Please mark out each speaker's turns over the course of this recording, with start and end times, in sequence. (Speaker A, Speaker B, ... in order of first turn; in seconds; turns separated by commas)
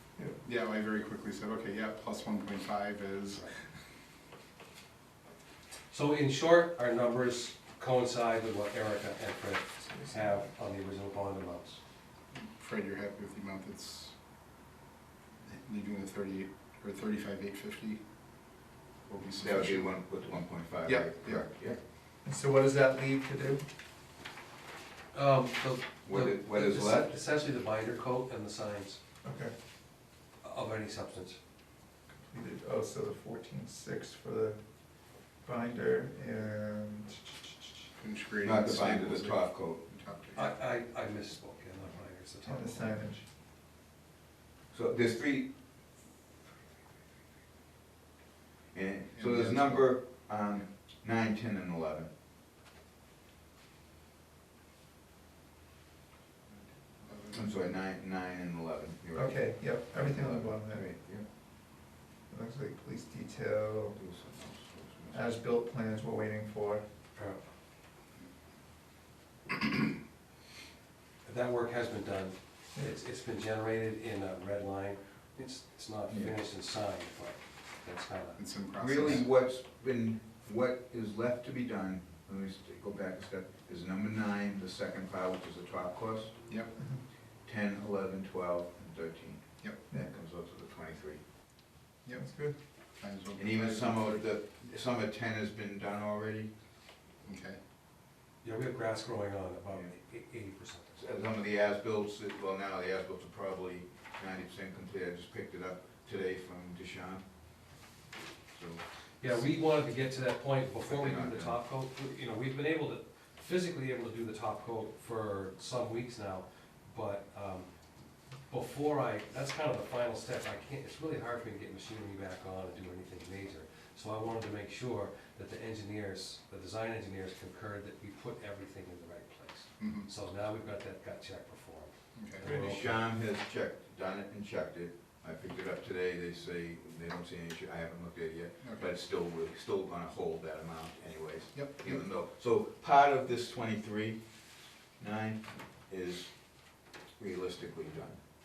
Speaker A: 0.4-3.5, Speaker B: 5.9-11.8, Speaker C: 9.9-10.3, Speaker A: 12.3-14.2, Speaker A: 15.4-20.0, Speaker D: 19.4-21.8, Speaker A: 20.8-21.7, Speaker C: 22.2-23.6, Speaker B: 25.1-29.0, Speaker D: 26.0-27.1, Speaker C: 29.2-29.5, Speaker B: 30.4-31.4, Speaker C: 32.3-34.6, Speaker C: 35.4-37.4, Speaker A: 38.0-40.5, Speaker D: 38.4-39.8, Speaker B: 40.3-43.0, Speaker C: 42.4-43.2, Speaker D: 44.7-45.5, Speaker D: 48.7-52.1, Speaker A: 49.1-49.9, Speaker A: 56.5-57.7, Speaker D: 57.3-61.2, Speaker C: 59.1-60.9, Speaker C: 62.3-64.0, Speaker D: 64.0-65.4, Speaker C: 65.1-66.8, Speaker B: 67.1-67.5, Speaker B: 71.2-78.4, Speaker D: 76.1-76.3, Speaker A: 78.3-79.3, Speaker D: 78.8-86.4, Speaker A: 86.5-86.7, Speaker D: 87.4-91.2, Speaker A: 92.0-94.2, Speaker C: 92.1-92.5, Speaker D: 93.3-96.5, Speaker A: 97.2-97.6, Speaker B: 98.4-100.9, Speaker D: 100.9-107.2, Speaker D: 108.5-109.4, Speaker B: 109.2-117.7, Speaker D: 110.8-111.6, Speaker B: 118.5-133.0, Speaker A: 129.8-130.1, Speaker A: 132.1-132.5, Speaker C: 132.4-132.7, Speaker D: 132.4-144.3, Speaker A: 138.6-138.9, Speaker A: 141.5-142.0, Speaker D: 145.0-148.2